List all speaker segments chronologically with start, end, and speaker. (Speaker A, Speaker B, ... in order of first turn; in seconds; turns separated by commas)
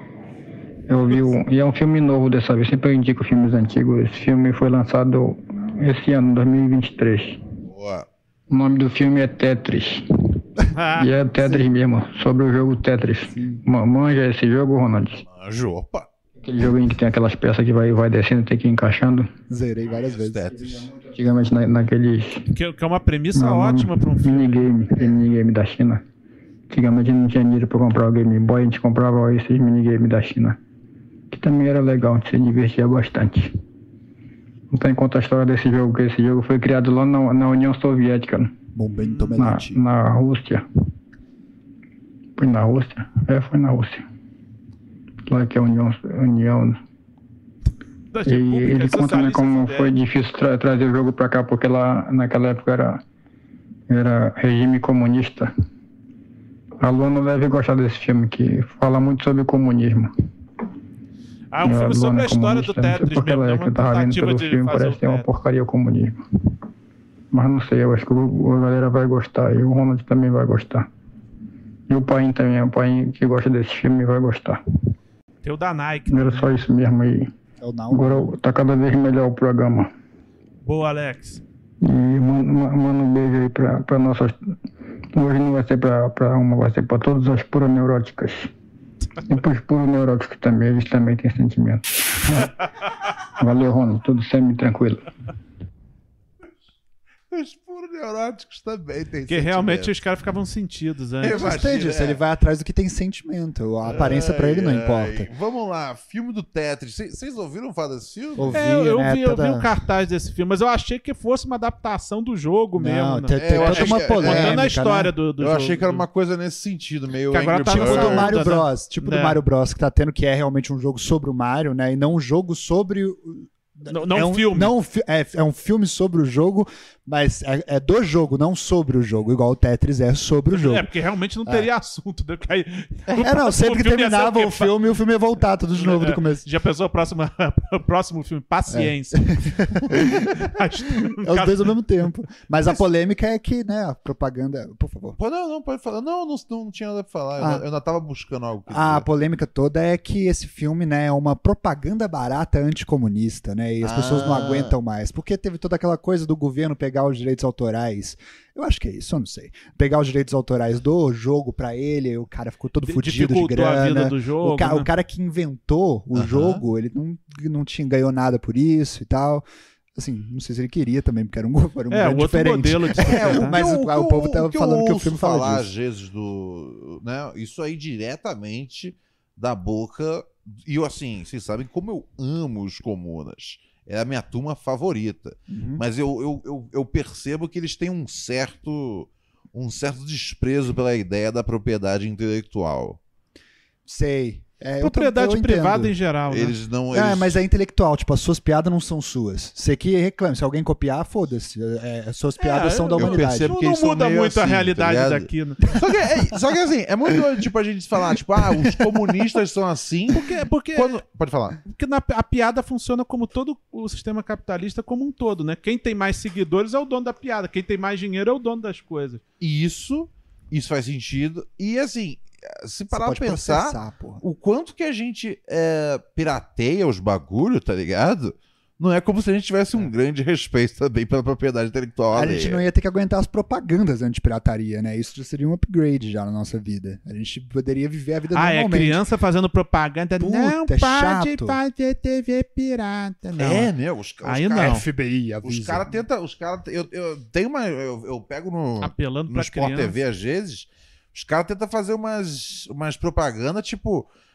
Speaker A: 0.9-7.4, Speaker B: 7.7-8.1, Speaker A: 8.5-10.0, Speaker C: 10.7-11.1, Speaker A: 11.0-15.2, Speaker D: 13.3-13.6, Speaker B: 15.3-16.1, Speaker A: 16.4-19.3, Speaker D: 19.5-20.5, Speaker B: 19.9-20.9, Speaker A: 20.6-22.5, Speaker C: 22.5-24.7, Speaker A: 23.4-26.0, Speaker A: 26.7-30.6, Speaker A: 31.3-33.5, Speaker A: 34.7-38.5, Speaker D: 38.8-39.8, Speaker C: 39.0-39.4, Speaker A: 39.4-40.6, Speaker A: 42.4-44.0, Speaker A: 45.3-46.8, Speaker C: 48.1-49.9, Speaker A: 48.3-53.0, Speaker A: 53.9-55.5, Speaker A: 56.8-60.1, Speaker C: 61.5-65.3, Speaker A: 61.6-66.2, Speaker A: 67.3-70.9, Speaker A: 71.9-74.6, Speaker C: 75.4-76.5, Speaker A: 76.1-77.3, Speaker D: 77.6-78.4, Speaker A: 77.9-79.9, Speaker C: 80.6-81.4, Speaker A: 81.8-84.4, Speaker A: 85.2-88.5, Speaker A: 89.3-92.5, Speaker A: 93.4-95.0, Speaker B: 97.3-99.9, Speaker C: 99.3-101.5, Speaker B: 101.2-102.2, Speaker D: 101.2-105.3, Speaker B: 103.8-108.6, Speaker D: 108.4-109.7, Speaker C: 108.5-116.1, Speaker D: 112.8-115.1, Speaker B: 113.4-114.7, Speaker B: 115.4-118.4, Speaker C: 117.3-119.4, Speaker D: 117.7-130.9, Speaker C: 123.9-124.7, Speaker C: 130.5-134.7, Speaker D: 133.2-136.4, Speaker C: 135.8-141.8, Speaker D: 138.7-140.5, Speaker D: 141.0-145.2, Speaker B: 145.2-149.1, Speaker D: 147.4-147.6, Speaker D: 148.7-175.7, Speaker B: 153.8-154.8, Speaker C: 162.8-164.9, Speaker B: 166.1-166.6, Speaker C: 171.9-173.6, Speaker B: 173.0-193.0, Speaker D: 185.5-185.8, Speaker D: 193.9-195.9, Speaker C: 194.8-196.6, Speaker B: 196.3-197.4, Speaker D: 196.9-203.5, Speaker C: 202.4-205.7, Speaker B: 203.0-211.6, Speaker C: 210.1-211.0, Speaker C: 211.7-219.2, Speaker B: 219.4-232.6, Speaker D: 222.9-224.2, Speaker D: 232.1-239.0, Speaker C: 238.3-243.7, Speaker D: 240.2-241.6, Speaker B: 243.4-244.8, Speaker C: 244.2-244.8, Speaker D: 244.6-245.9, Speaker B: 245.4-254.1, Speaker C: 248.8-250.0